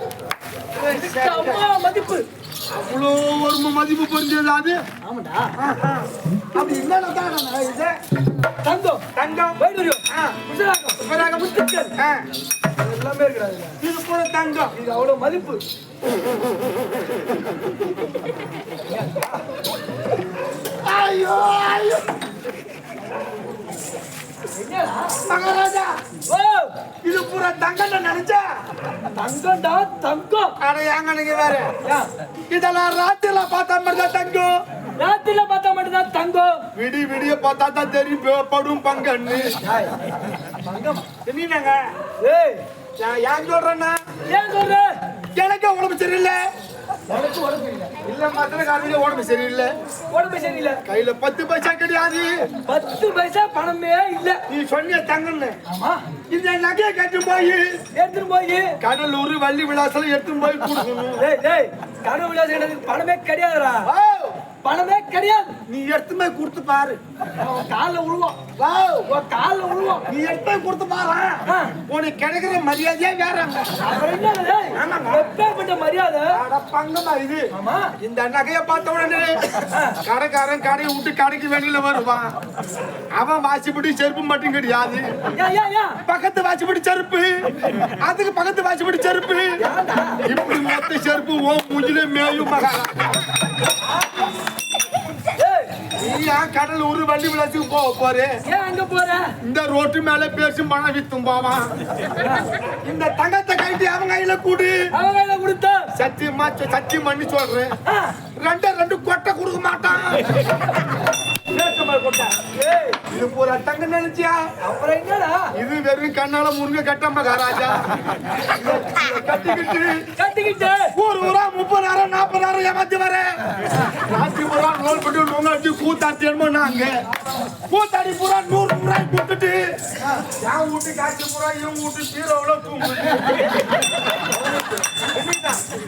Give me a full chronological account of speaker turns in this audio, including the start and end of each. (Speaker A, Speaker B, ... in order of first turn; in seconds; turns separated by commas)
Speaker A: 0.8-1.7, Speaker B: 0.8-2.2, Speaker A: 2.7-4.8, Speaker B: 5.0-5.5, Speaker A: 5.6-7.9, Speaker B: 8.6-9.1, Speaker A: 9.1-10.4, Speaker B: 9.6-11.9, Speaker A: 11.0-12.2, Speaker B: 12.8-13.8, Speaker A: 13.8-14.7, Speaker B: 14.7-15.6, Speaker B: 18.9-19.4, Speaker A: 20.6-22.1, Speaker B: 24.5-25.2, Speaker A: 25.1-25.9, Speaker B: 26.3-26.7, Speaker A: 27.0-28.4, Speaker B: 29.0-30.6, Speaker A: 30.6-31.7, Speaker B: 31.8-32.1, Speaker A: 32.5-34.5, Speaker B: 35.0-36.7, Speaker A: 36.8-39.5, Speaker B: 39.6-41.1, Speaker A: 41.2-41.8, Speaker B: 42.2-42.6, Speaker A: 43.0-44.1, Speaker B: 44.2-44.9, Speaker A: 45.4-46.4, Speaker B: 47.1-47.9, Speaker A: 48.0-49.7, Speaker B: 50.1-50.8, Speaker A: 50.9-52.5, Speaker B: 52.6-54.4, Speaker A: 54.5-55.6, Speaker B: 55.7-56.0, Speaker A: 56.3-57.8, Speaker B: 58.0-58.8, Speaker A: 58.8-61.3, Speaker B: 61.2-63.9, Speaker A: 63.8-64.4, Speaker B: 64.6-65.6, Speaker A: 65.7-67.0, Speaker B: 67.3-68.5, Speaker A: 68.6-69.1, Speaker B: 69.1-70.1, Speaker A: 70.1-73.7, Speaker B: 71.5-71.8, Speaker B: 73.8-76.4, Speaker A: 74.7-75.3, Speaker A: 76.3-77.5, Speaker B: 77.5-77.9, Speaker A: 78.0-82.3, Speaker B: 79.7-80.0, Speaker A: 83.1-85.1, Speaker B: 85.4-86.0, Speaker A: 86.0-89.5, Speaker B: 89.6-90.2, Speaker A: 90.2-93.1, Speaker B: 95.3-95.8, Speaker A: 95.9-98.3, Speaker B: 98.5-99.3, Speaker A: 99.4-101.7, Speaker B: 102.2-102.5, Speaker A: 102.8-104.8, Speaker B: 104.9-105.9, Speaker A: 105.9-107.7, Speaker B: 107.9-108.2, Speaker A: 108.4-110.5, Speaker A: 111.5-112.4, Speaker B: 112.4-113.0, Speaker A: 113.0-114.4, Speaker B: 114.6-115.5, Speaker A: 115.5-117.9, Speaker B: 118.6-119.0, Speaker A: 118.6-120.1, Speaker B: 120.2-120.9, Speaker A: 120.9-123.2, Speaker A: 124.0-126.9, Speaker A: 127.6-133.5, Speaker B: 134.3-135.1, Speaker A: 135.2-135.5